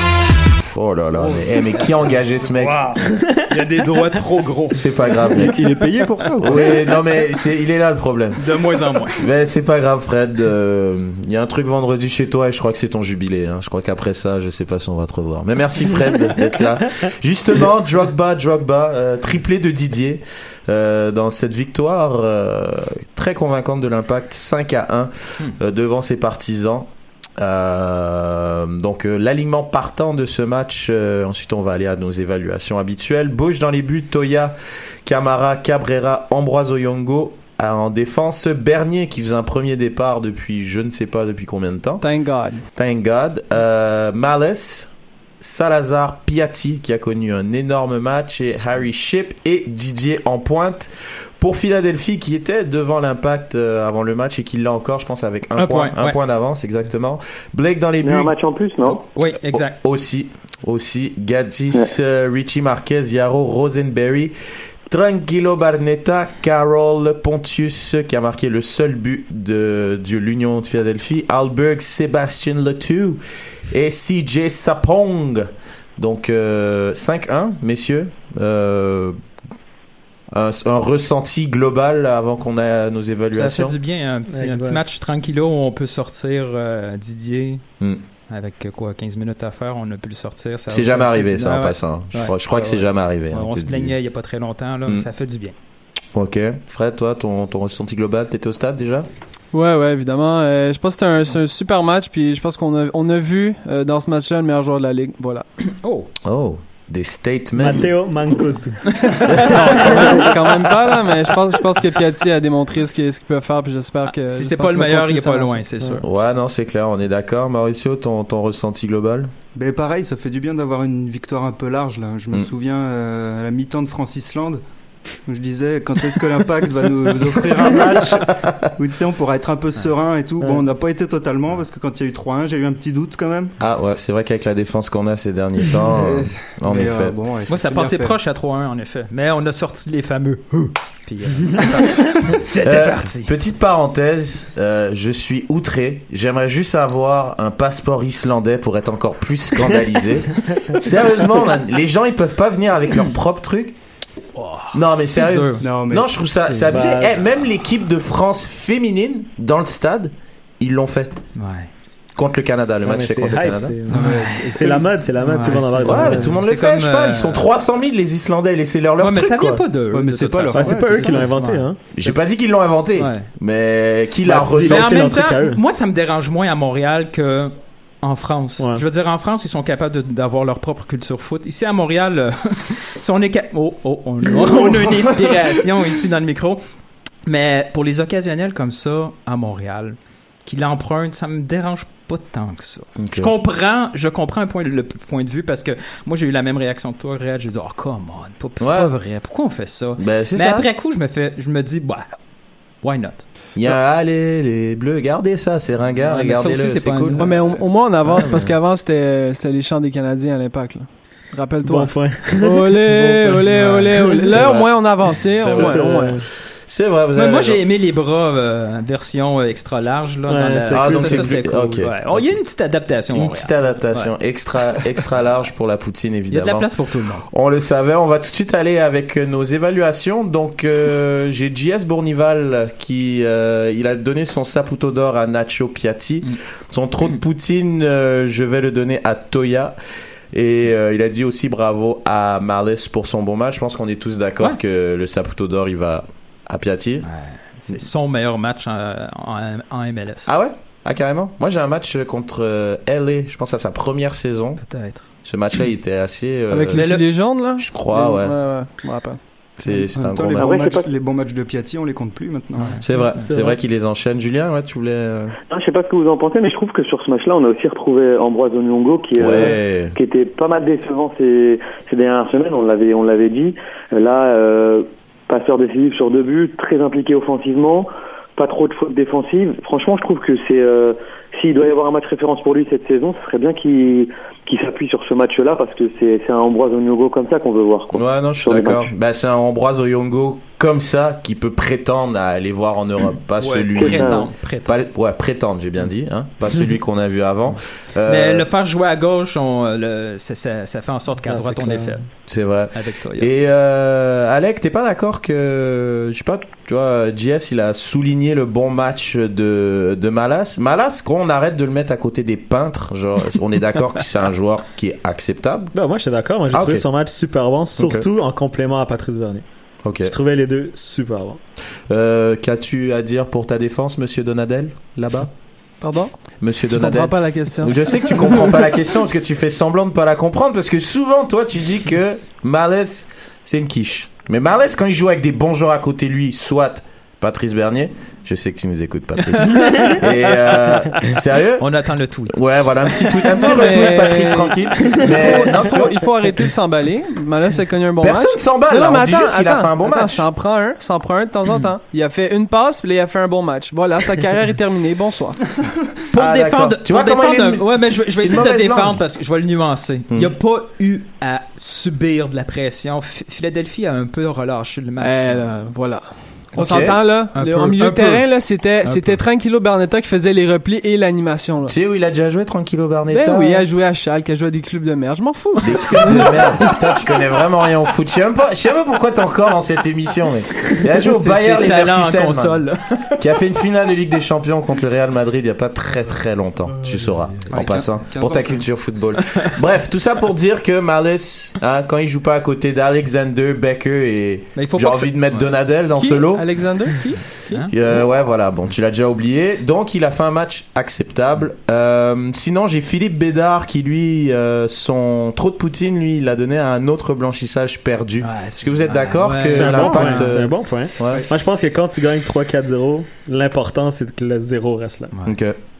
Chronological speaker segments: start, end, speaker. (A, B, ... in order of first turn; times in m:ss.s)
0:00.6-0:02.9 A
0:01.2-0:05.2 B
0:04.7-0:05.7 A
0:05.2-0:06.8 C
0:06.4-0:08.6 A
0:08.4-0:09.2 B
0:09.2-0:26.9 A
0:27.4-0:42.0 A
0:42.0-0:42.6 D
0:42.8-0:44.9 A
0:45.4-0:58.3 A
0:55.6-0:56.2 B
0:58.0-0:59.0 E
0:58.9-0:59.8 B
0:59.5-1:04.3 A
1:04.9-1:19.2 A
1:20.3-1:23.7 A
1:23.3-1:27.6 B
1:24.3-1:24.8 F
1:28.3-1:35.5 B
1:30.7-1:33.9 A
1:36.1-1:39.1 A
1:39.5-1:45.4 D
1:45.8-1:46.1 B
1:46.2-1:47.9 A
1:47.6-1:49.3 F
1:48.9-1:50.5 B
1:49.4-1:50.0 A
1:49.4-1:55.6 D
1:54.2-1:56.1 B
1:56.0-1:59.3 A
1:59.5-2:04.6 C
2:05.3-2:13.6 C
2:07.5-2:08.7 A
2:13.6-2:17.2 A
2:15.9-2:18.2 C
2:17.5-2:23.3 B
2:22.6-2:33.8 A
2:34.4-2:35.6 B
2:34.7-2:41.2 A
2:35.6-2:36.2 C
2:36.4-2:37.2 F
2:41.4-2:41.7 B
2:42.1-2:43.8 A
2:42.8-2:46.4 F
2:43.9-2:44.9 C
2:43.9-2:44.4 B
2:45.2-2:47.5 B
2:45.8-2:49.6 A
2:49.0-2:51.7 B
2:49.9-2:51.3 C
2:50.5-2:52.2 F
2:51.9-2:55.2 A
2:53.0-2:53.3 B
2:54.2-2:55.6 F
2:54.5-3:06.6 B
2:58.6-2:58.8 F
3:07.2-3:22.1 B
3:13.0-3:13.3 A
3:18.6-3:18.9 A
3:20.0-3:20.7 A
3:22.8-3:23.2 B
3:23.6-3:28.5 A
3:25.9-3:27.2 B
3:27.2-3:36.1 D
3:31.6-3:33.5 F
3:33.6-3:34.1 B
3:33.8-3:34.7 A
3:35.3-3:35.9 A
3:35.4-3:36.2 F
3:36.7-3:37.6 A
3:37.1-3:44.1 B
3:40.3-3:41.4 F
3:40.7-3:42.4 A
3:43.1-3:46.7 A
3:44.7-3:45.0 B
3:46.3-3:47.3 B
3:47.3-3:59.8 A
4:00.3-4:07.1 A
4:07.0-4:10.3 B
4:10.3-4:14.6 A
4:14.6-4:15.0 B
4:15.2-4:17.0 A
4:16.5-4:19.2 D
4:16.8-4:17.0 B
4:17.6-4:18.3 A
4:19.6-4:20.5 A
4:19.7-4:22.8 C
4:20.4-4:20.9 E
4:22.6-4:23.2 B
4:22.8-4:25.4 A
4:22.9-4:23.6 F
4:25.5-4:48.9 E
4:29.2-4:30.0 A
4:47.9-4:58.4 A
4:53.4-4:54.8 B
4:53.8-4:54.2 E
4:58.1-5:02.0 B
5:01.2-5:02.0 F
5:02.3-5:15.7 A
5:02.7-5:03.3 B
5:15.7-5:19.4 F
5:16.5-5:16.8 A
5:17.8-5:18.0 A
5:19.8-5:20.1 A
5:20.0-5:21.4 F
5:21.9-5:25.3 A
5:25.8-5:26.1 D
5:26.4-5:41.6 A
5:26.7-5:27.8 D
5:39.5-5:40.0 B
5:41.6-5:42.4 B
5:42.3-5:46.1 A
5:43.4-5:55.4 D
5:48.0-5:50.2 A
5:56.1-6:05.5 B
5:56.1-5:59.0 A
6:00.1-6:00.3 A
6:05.0-6:11.7 D
6:06.5-6:07.0 A
6:07.3-6:08.2 B
6:08.8-6:09.2 B
6:11.7-6:13.6 A
6:13.1-6:16.7 D
6:15.6-6:22.6 A
6:21.0-6:23.2 B
6:23.2-6:36.5 A
6:27.4-6:28.7 C
6:27.5-6:27.8 B
6:34.5-6:35.5 B
6:36.0-6:37.6 D
6:37.0-6:37.7 B
6:37.7-6:51.2 A
6:48.2-6:50.5 B
6:49.5-6:55.1 F
6:55.2-6:55.6 A